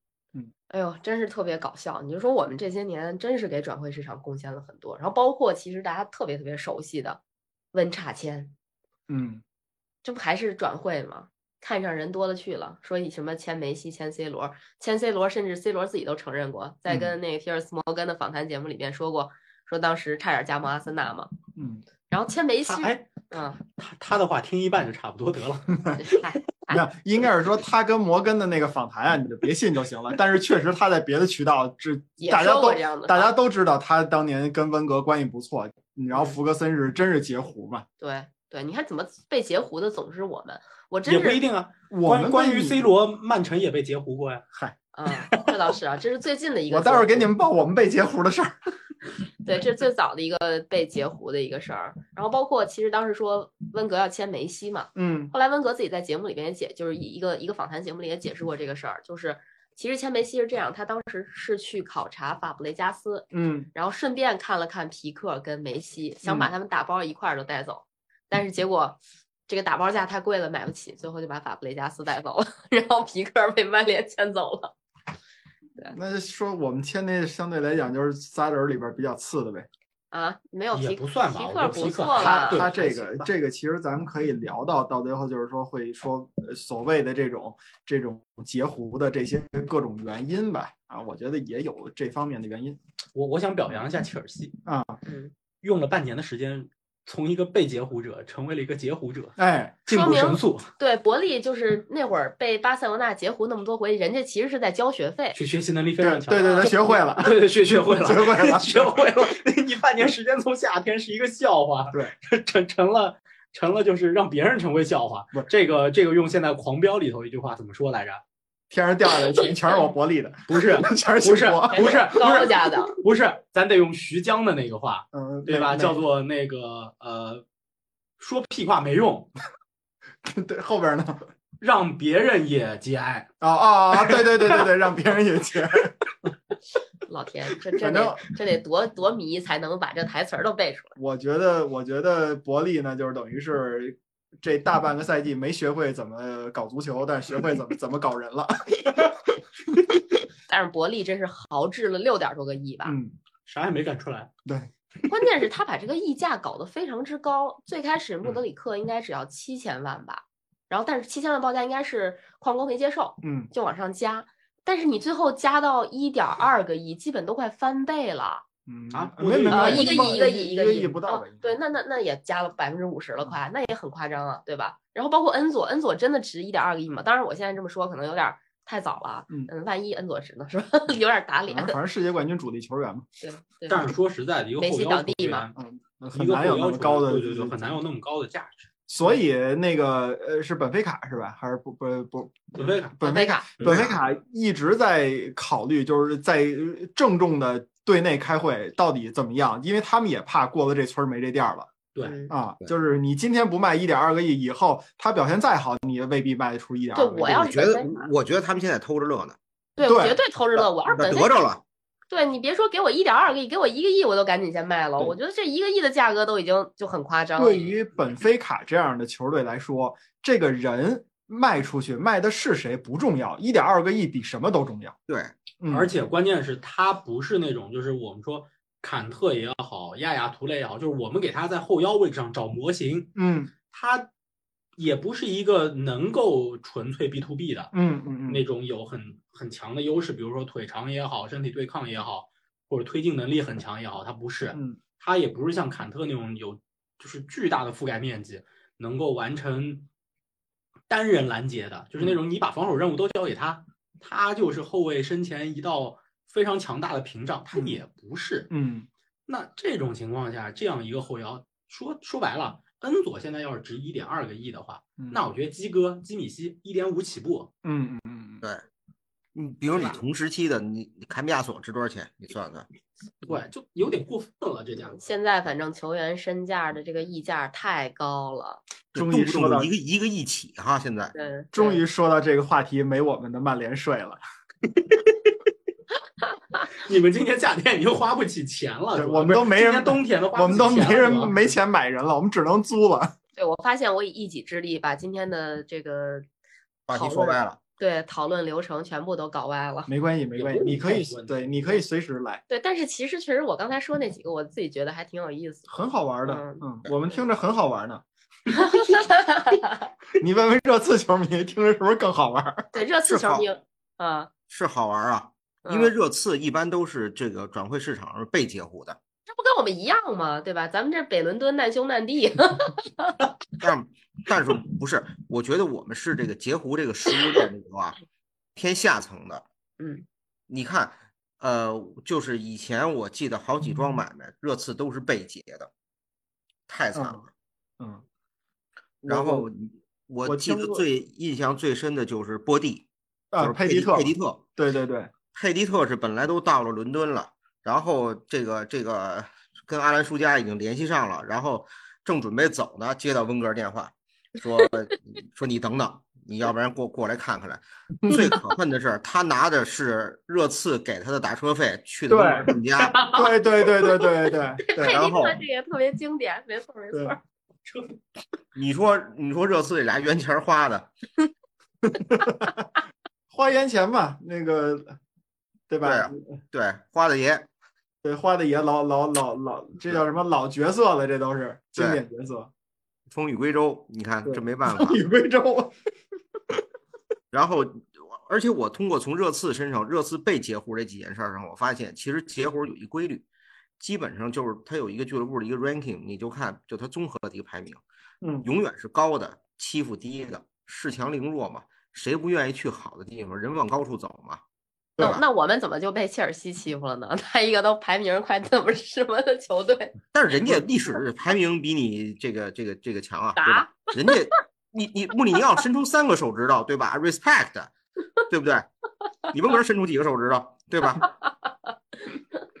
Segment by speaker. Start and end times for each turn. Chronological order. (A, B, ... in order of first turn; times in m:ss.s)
0:00.7-0:07.2 A
0:07.7-0:08.5 A
0:09.1-0:09.4 B
0:10.0-0:21.3 A
0:16.9-0:17.1 B
0:21.6-0:21.8 B
0:22.1-0:23.6 A
0:22.6-0:26.2 C
0:25.9-0:26.8 A
0:26.7-0:37.8 B
0:32.2-0:33.3 A
0:38.0-0:41.4 A
0:41.0-0:44.4 C
0:41.9-0:42.8 B
0:44.9-0:47.3 A
0:46.7-0:48.6 B
0:49.4-1:14.7 A
0:54.9-0:55.3 B
1:03.3-1:03.7 B
1:06.2-1:06.5 B
1:15.9-1:19.7 B
1:20.1-1:22.7 A
1:20.7-1:23.3 C
1:22.1-1:32.8 B
1:33.1-1:34.5 C
1:34.6-1:35.0 B
1:35.0-1:35.3 A
1:35.6-1:40.7 C
1:39.4-1:39.9 B
1:39.9-1:45.4 A
1:45.3-1:58.2 C
1:46.0-1:48.9 B
1:46.4-1:46.7 A
1:58.7-2:02.2 B
2:00.5-2:07.4 C
2:01.7-2:03.0 A
2:05.1-2:06.0 B
2:08.2-2:09.3 C
2:10.2-2:11.3 B
2:11.6-2:13.3 C
2:13.4-2:15.9 B
2:13.9-2:14.6 C
2:17.1-2:21.0 A
2:17.8-2:18.2 B
2:21.0-2:30.0 B
2:30.5-2:33.0 A
2:32.8-2:33.1 B
2:33.4-2:34.3 C
2:34.4-2:34.7 B
2:35.1-2:48.4 A
2:43.2-2:43.5 B
2:48.7-2:51.6 B
2:48.9-2:50.2 C
2:49.5-3:01.8 A
3:01.5-3:03.0 B
3:03.2-3:03.9 A
3:03.7-3:05.5 C
3:04.6-3:05.5 A
3:05.5-3:07.7 B
3:06.1-3:08.7 C
3:08.9-3:21.7 B
3:12.6-3:13.0 C
3:13.0-3:13.5 A
3:13.6-3:13.9 C
3:13.6-3:14.0 D
3:22.0-3:22.3 A
3:22.3-3:27.5 B
3:26.9-3:28.1 A
3:27.2-3:29.4 D
3:29.8-3:31.4 A
3:29.8-3:30.2 B
3:30.6-3:31.6 D
3:32.1-3:37.7 A
3:37.4-3:44.9 B
3:45.1-3:45.4 D
3:45.6-3:45.9 B
3:45.7-3:53.1 C
3:53.2-3:53.5 B
3:53.7-3:54.1 C
3:54.8-3:57.7 C
3:57.7-3:58.4 B
3:58.3-4:09.9 C
4:04.5-4:04.8 B
4:10.9-4:18.5 C
4:17.5-4:17.8 B
4:18.5-4:18.9 B
4:19.3-4:27.5 C
4:27.6-4:28.4 B
4:29.3-4:32.7 D
4:33.2-4:35.0 C
4:35.0-4:38.6 A
4:38.9-4:39.7 B
4:38.9-4:41.1 D
4:41.1-4:41.8 A
4:41.5-4:44.2 B
4:44.8-4:45.3 C
4:46.8-4:51.5 C
4:48.9-4:53.1 B
4:53.4-4:56.2 A
4:56.9-4:57.6 D
4:56.9-4:59.9 A
4:59.9-5:02.4 B
5:00.3-5:01.8 C
5:02.5-5:05.7 A
5:05.7-5:08.0 B
5:06.2-5:06.6 A
5:08.5-5:09.9 A
5:10.2-5:12.7 B
5:12.7-5:14.3 A
5:13.0-5:13.4 D
5:14.5-5:19.0 D
5:15.6-5:15.9 A
5:19.3-5:23.2 A
5:23.6-5:28.0 D
5:28.6-5:29.4 D
5:29.8-5:30.0 A
5:30.5-5:35.7 D
5:36.7-5:37.3 D
5:36.9-5:37.2 B
5:37.8-5:38.0 B
5:39.0-5:42.9 D
5:39.0-5:39.5 B
5:40.2-5:40.8 B
5:43.3-5:45.1 B
5:43.4-5:44.4 D
5:45.3-6:03.1 D
5:58.0-5:58.3 B
6:02.1-6:02.5 B
6:02.8-6:04.2 A
6:03.0-6:05.0 B
6:04.7-6:07.2 A
6:04.9-6:05.4 D
6:06.9-6:07.2 B
6:08.5-6:10.9 D
6:11.9-6:12.6 B
6:13.3-6:15.0 B
6:15.7-6:16.3 B
6:15.8-6:17.5 D
6:18.0-6:22.5 B
6:21.8-6:22.0 D
6:23.1-6:25.0 D
6:24.2-6:25.7 B
6:27.3-6:33.2 D
6:33.8-6:37.8 D
6:38.2-6:38.5 B
6:38.4-6:44.4 D
6:45.0-6:45.2 D
6:45.0-6:50.0 A
6:50.1-6:57.7 D
6:53.4-6:54.1 A
6:58.3-6:58.7 D
6:59.3-7:01.1 D